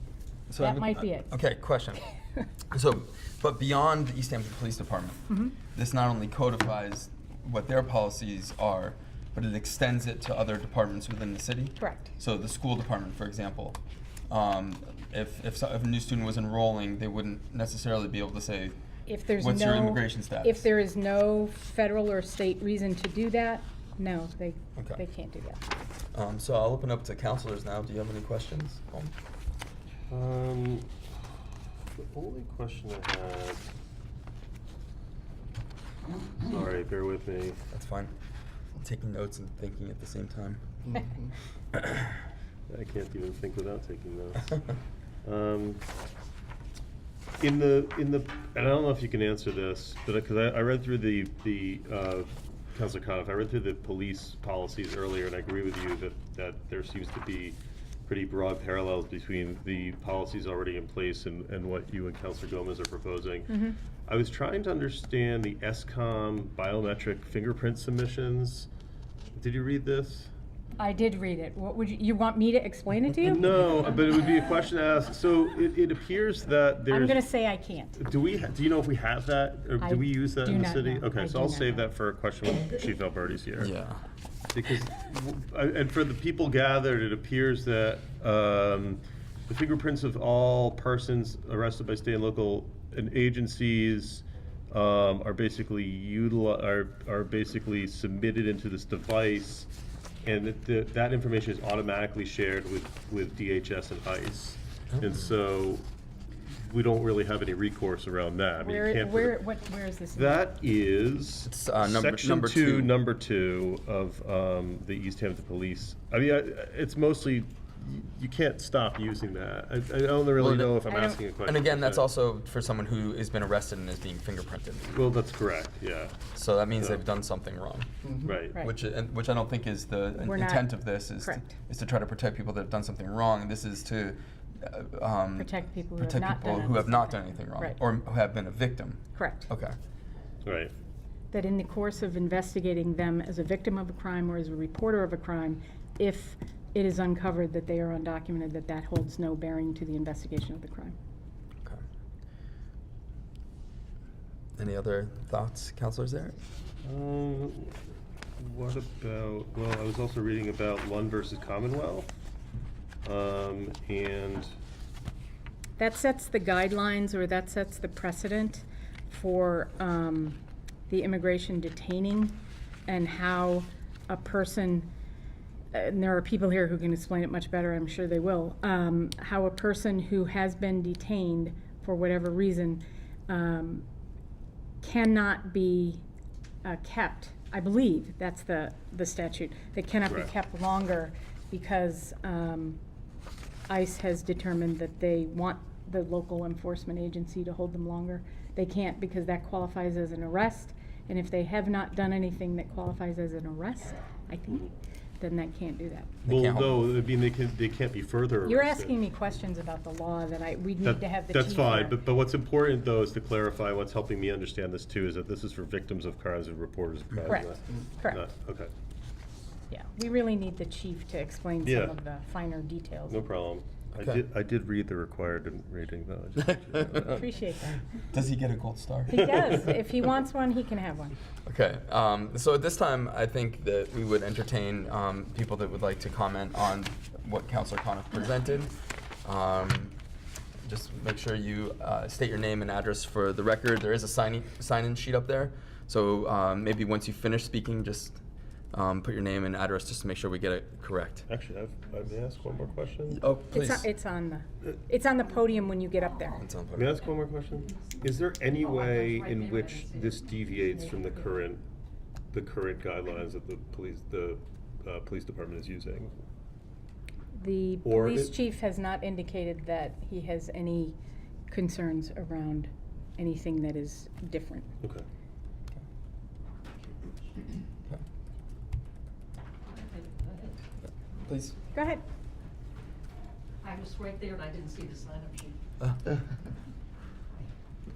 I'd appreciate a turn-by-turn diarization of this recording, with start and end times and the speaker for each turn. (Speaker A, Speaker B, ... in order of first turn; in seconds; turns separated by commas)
Speaker A: 0.5-2.1, Speaker B: 0.6-1.3, Speaker A: 2.7-18.8, Speaker B: 11.8-12.1, Speaker B: 19.1-25.6, Speaker A: 19.4-20.6, Speaker A: 24.8-25.0, Speaker A: 26.1-29.1, Speaker C: 30.1-31.3, Speaker C: 32.0-33.6, Speaker C: 36.4-37.6, Speaker A: 37.7-38.1, Speaker A: 38.8-41.0, Speaker A: 41.8-42.0, Speaker C: 42.7-45.8, Speaker C: 47.4-63.5, Speaker B: 63.5-63.8, Speaker C: 64.0-68.7, Speaker C: 69.3-70.3, Speaker B: 70.8-73.5, Speaker C: 73.2-77.2, Speaker B: 76.9-78.0, Speaker C: 78.0-83.7, Speaker B: 79.8-81.8, Speaker A: 83.6-84.0, Speaker C: 84.5-99.7, Speaker C: 100.2-105.8, Speaker C: 106.5-109.4, Speaker B: 108.6-110.5, Speaker C: 110.1-122.0, Speaker A: 111.4-112.9, Speaker A: 120.4-120.8, Speaker B: 120.8-121.2, Speaker A: 121.4-125.0, Speaker C: 124.9-126.2, Speaker A: 126.3-139.8, Speaker C: 128.2-128.6, Speaker B: 130.2-130.7, Speaker B: 131.2-131.5, Speaker B: 135.4-137.8, Speaker B: 139.2-139.5, Speaker C: 140.4-140.7, Speaker B: 141.3-150.9, Speaker A: 154.6-156.4, Speaker C: 156.8-157.8, Speaker C: 158.4-162.1, Speaker C: 163.0-164.5, Speaker B: 165.8-174.9, Speaker B: 175.7-183.8, Speaker B: 184.8-186.0, Speaker B: 186.6-192.8, Speaker B: 193.7-204.7, Speaker B: 205.2-206.2, Speaker A: 206.2-206.8, Speaker C: 206.2-208.9, Speaker B: 208.4-212.0, Speaker C: 210.8-218.7, Speaker B: 217.2-218.2, Speaker B: 219.7-223.2, Speaker C: 221.6-221.9, Speaker C: 223.1-227.2, Speaker B: 226.9-227.8, Speaker A: 228.1-229.7, Speaker B: 229.1-231.2, Speaker A: 231.4-238.7, Speaker A: 239.2-239.9, Speaker A: 240.6-248.2, Speaker A: 248.7-251.2, Speaker C: 251.3-253.2, Speaker A: 253.1-253.9, Speaker B: 253.5-256.4, Speaker A: 256.4-256.9, Speaker C: 256.7-261.6, Speaker D: 258.5-261.3, Speaker C: 262.3-266.2, Speaker B: 267.3-270.9, Speaker C: 267.8-268.3, Speaker B: 271.5-274.7, Speaker D: 279.6-280.6, Speaker A: 281.2-281.6, Speaker B: 281.7-282.0, Speaker D: 283.6-285.6